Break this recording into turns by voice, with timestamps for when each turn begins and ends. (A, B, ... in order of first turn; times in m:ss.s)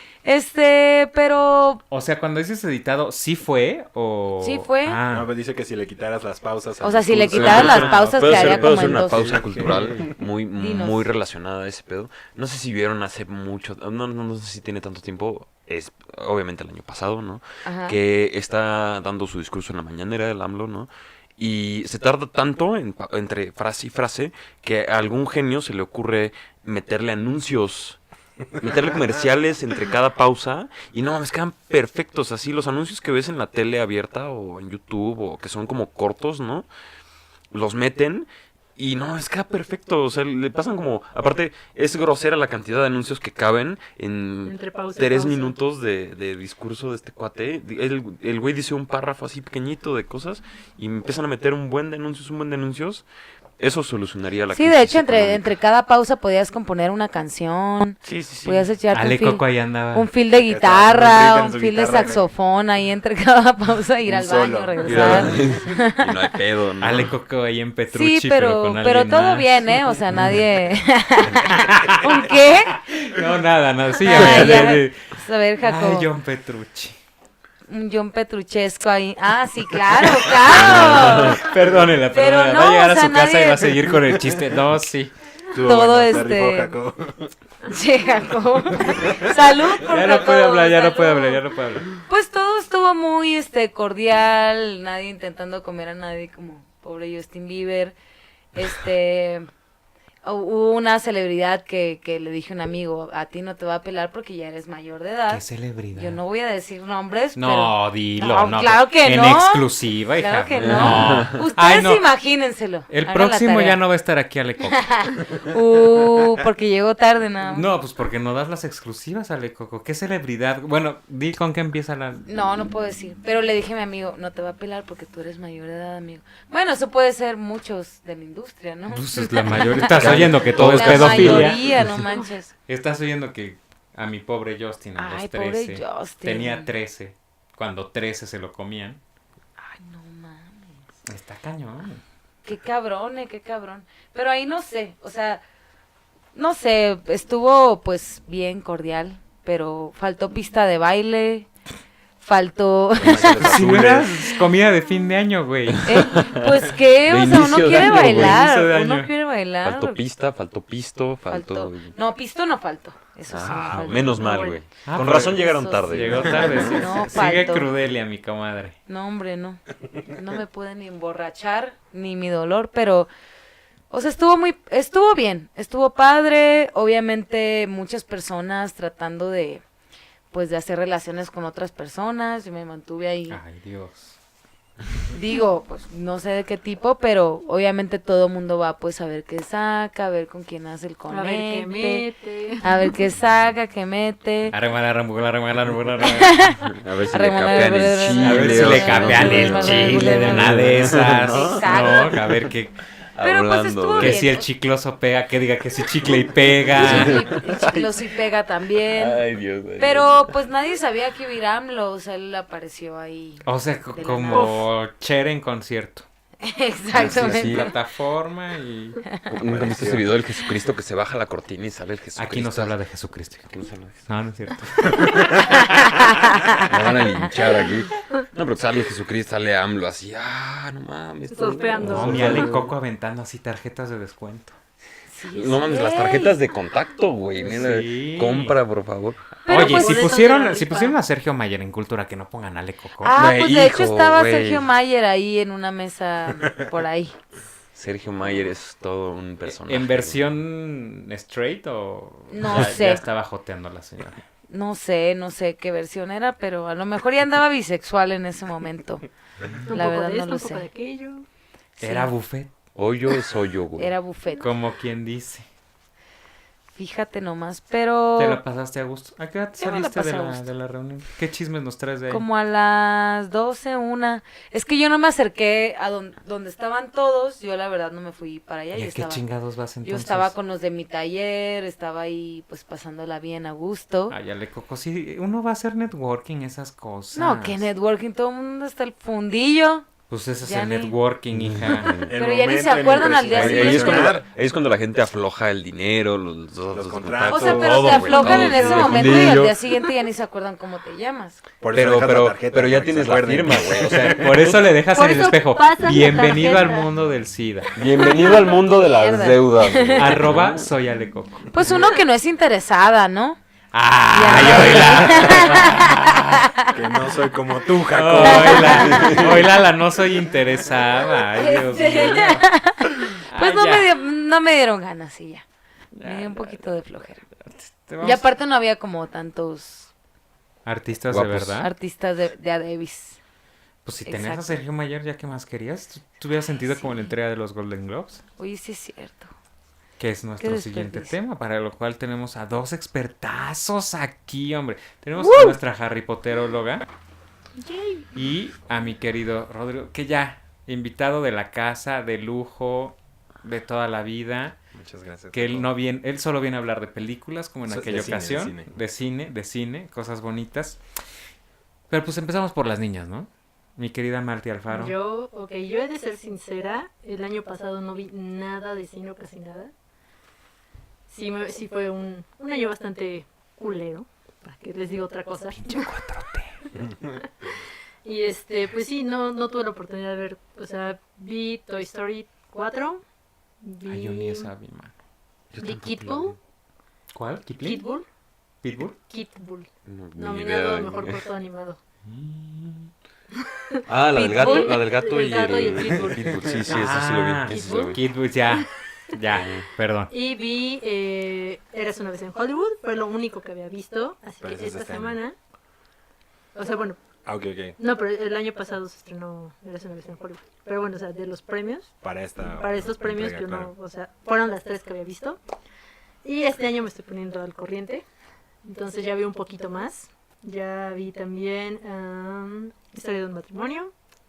0:00.2-0:01.8 A
0:01.9-0:05.3 B
0:04.4-0:05.0 A
0:05.1-0:10.1 C
0:06.8-0:09.4 A
0:07.3-0:28.0 D
0:07.5-0:10.1 B
0:10.6-0:11.1 A
0:17.6-0:18.0 A
0:28.6-0:36.7 D
0:37.5-0:53.1 D
0:44.4-0:45.5 E
0:53.6-0:55.5 D
0:54.5-1:06.2 A
0:58.0-0:58.7 D
0:58.9-1:00.1 B
1:00.3-1:02.3 C
1:04.0-1:05.4 C
1:04.8-1:07.1 D
1:06.8-1:09.8 B
1:07.9-1:12.8 A
1:11.5-1:12.3 B
1:12.8-1:17.0 B
1:14.0-1:16.1 A
1:14.1-1:14.8 D
1:17.7-1:21.5 A
1:20.4-1:21.4 D
1:20.5-1:25.1 B
1:22.1-1:23.8 A
1:25.5-1:27.3 C
1:25.6-1:26.7 A
1:27.6-1:31.4 A
1:28.8-1:29.3 C
1:29.8-1:31.9 B
1:32.0-1:38.0 A
1:38.5-1:39.5 A
1:40.2-1:45.4 A
1:45.3-1:46.2 B
1:45.9-1:49.6 A
1:47.4-1:52.1 B
1:50.2-1:53.8 A
1:50.5-1:51.4 D
1:52.9-1:54.9 B
1:54.7-1:57.7 A
1:57.4-2:02.2 B
2:02.3-2:12.5 A
2:08.9-2:12.0 B
2:09.9-2:11.9 D
2:12.7-2:19.0 B
2:15.0-2:16.7 A
2:19.6-2:20.8 A
2:21.1-2:22.0 B
2:22.4-2:25.4 A
2:26.3-2:31.5 A
2:32.2-2:33.9 A
2:32.9-2:34.1 D
2:33.4-2:36.1 B
2:35.7-2:38.4 D
2:35.8-2:40.0 A
2:37.7-2:39.1 B
2:39.6-2:41.9 D
2:41.3-2:44.5 A
2:43.3-2:47.0 D
2:44.2-2:44.6 E
2:44.8-2:48.8 B
2:45.0-2:47.7 A
2:48.9-2:53.1 A
2:53.9-2:59.6 A
3:00.3-3:03.4 A
3:03.3-3:04.2 B
3:05.1-3:12.1 A
3:11.1-3:12.8 E
3:12.6-3:14.5 A
3:14.5-3:16.6 B
3:16.0-3:22.2 A
3:16.6-3:22.5 D
3:18.2-3:22.7 B
3:23.1-3:24.3 D
3:23.2-3:24.5 A
3:24.0-3:27.3 B
3:26.6-3:28.1 D
3:26.7-3:29.2 A
3:28.8-3:30.3 D
3:29.8-3:34.6 A
3:33.4-3:36.0 B
3:34.3-3:34.6 E
3:36.4-3:37.7 A
3:36.9-3:37.7 D
3:37.0-3:39.0 B
3:39.3-3:42.8 D
3:39.5-3:40.1 C
3:42.2-3:43.5 B
3:43.5-3:44.1 D
3:44.1-3:45.1 B
3:45.5-3:47.1 A
3:46.6-3:52.7 D
3:51.3-3:52.5 E
3:51.8-3:54.6 B
3:55.1-3:56.4 A
3:55.3-3:59.3 D
3:57.4-3:58.6 B
3:59.4-4:00.3 A
3:59.5-4:00.9 E
3:59.5-4:03.1 B
4:03.0-4:07.2 A
4:03.1-4:04.7 D
4:07.7-4:10.2 D
4:09.4-4:14.2 B
4:12.3-4:13.0 A
4:14.5-4:19.0 A
4:19.7-4:20.7 A
4:19.7-4:21.2 E
4:21.8-4:22.1 A
4:21.8-4:22.5 B
4:22.7-4:23.9 D
4:23.8-4:24.5 A
4:24.4-4:25.4 B
4:26.8-4:28.4 A
4:28.2-4:32.2 B
4:29.6-4:30.4 A
4:32.1-4:39.2 A
4:38.7-4:40.3 B
4:39.8-4:44.2 A
4:44.1-4:47.7 B
4:47.1-4:51.0 A
4:50.1-4:51.9 B
4:51.5-4:52.1 D
4:52.0-4:54.3 C
4:52.1-4:54.1 A
4:53.3-4:59.6 D
4:56.7-4:59.4 C
4:57.3-5:01.4 A
4:58.0-4:59.3 B
5:01.6-5:04.3 C
5:01.7-5:04.7 D
5:04.2-5:07.7 B
5:04.9-5:06.9 E
5:07.8-5:10.7 D
5:08.0-5:10.2 A
5:09.9-5:11.5 B
5:11.5-5:13.4 A
5:13.7-5:16.5 B
5:14.1-5:16.7 A
5:14.3-5:15.5 D
5:16.7-5:19.5 C
5:17.9-5:22.5 B
5:18.2-5:19.1 A
5:18.7-5:19.4 D
5:21.3-5:25.4 A
5:23.2-5:23.9 B
5:26.0-5:28.2 B
5:26.0-5:27.2 A
5:28.0-5:29.9 A
5:30.6-5:31.7 B
5:31.1-5:31.6 D
5:31.6-5:33.2 A
5:33.8-5:38.2 B
5:34.0-5:34.6 A
5:36.7-5:37.1 A
5:38.4-5:39.3 A
5:40.0-5:46.8 B
5:40.4-5:41.1 A
5:45.2-5:45.6 A
5:47.6-5:48.1 E
5:48.1-5:54.6 B
5:54.7-5:55.7 C
5:55.3-6:00.8 B
5:57.7-5:58.7 C
6:01.9-6:05.0 B
6:04.7-6:09.7 E
6:11.1-6:15.9 E
6:15.5-6:16.6 B
6:18.0-6:23.0 E
6:23.6-6:24.5 E
6:23.9-6:24.9 B
6:25.5-6:26.4 D
6:25.6-6:26.4 E
6:27.1-6:27.8 B
6:27.6-6:28.0 E
6:28.6-6:29.0 B
6:29.1-6:31.8 E
6:29.8-6:31.2 D
6:32.0-6:32.9 B
6:33.5-6:33.8 E
6:33.9-6:38.0 D
6:34.1-6:34.8 A
6:34.3-6:36.4 E
6:36.7-6:40.1 B
6:37.5-6:38.0 E
6:39.3-6:39.7 D
6:40.1-6:45.3 E
6:44.4-6:45.2 C
6:46.5-6:47.0 E
6:47.2-6:47.8 C
6:47.8-6:51.9 E
6:52.0-6:53.7 C
6:52.4-6:55.4 E
6:56.2-6:58.0 E
6:58.6-7:03.9 E